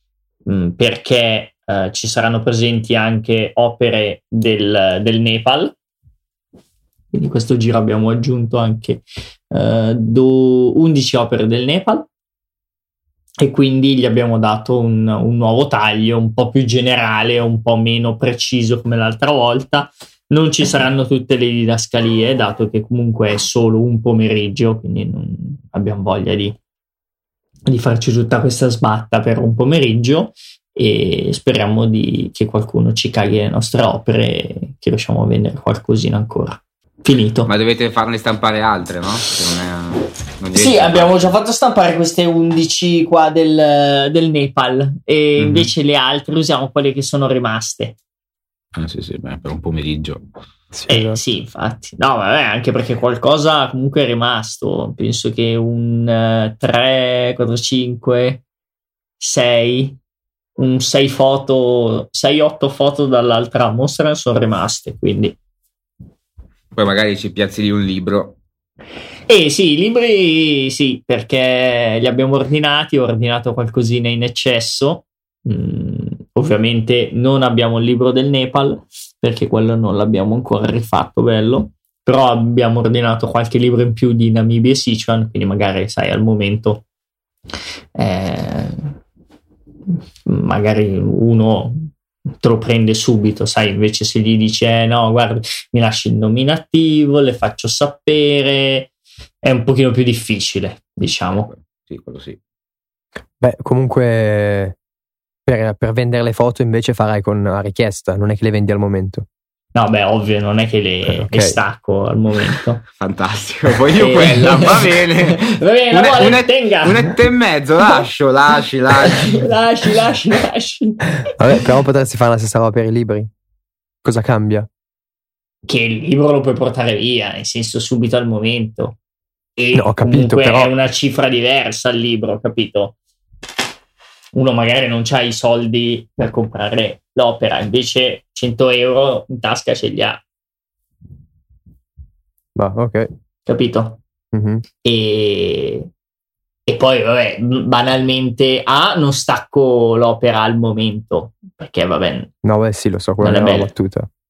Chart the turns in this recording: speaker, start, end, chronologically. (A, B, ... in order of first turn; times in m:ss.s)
0:00.5-0:05.7 A
0:07.1-0:12.1 A
0:13.4-0:26.6 A
0:27.7-0:37.5 A
0:37.5-0:41.4 B
0:40.5-0:48.0 A
0:45.4-0:45.7 B
0:48.8-0:50.2 B
0:50.7-0:51.2 C
0:50.9-0:58.4 A
0:59.2-1:00.0 A
1:00.6-1:05.4 A
1:06.8-1:08.4 B
1:09.3-1:26.8 A
1:28.0-1:28.9 A
1:30.2-1:38.9 A
1:39.4-1:41.5 A
1:41.5-1:42.4 B
1:43.4-1:44.8 C
1:45.5-1:49.3 C
1:49.8-1:52.8 A
1:51.1-1:51.6 C
1:53.0-1:59.5 B
1:53.9-1:57.1 A
1:59.0-2:01.6 A
2:01.3-2:03.3 C
2:04.0-2:04.7 C
2:05.7-2:09.0 A
2:09.6-2:12.9 A
2:09.7-2:10.7 C
2:14.3-2:20.2 A
2:22.6-2:23.1 C
2:23.5-2:24.0 A
2:24.3-2:24.6 C
2:24.8-2:25.9 A
2:26.7-2:32.3 A
2:32.4-2:34.1 C
2:33.2-2:33.7 A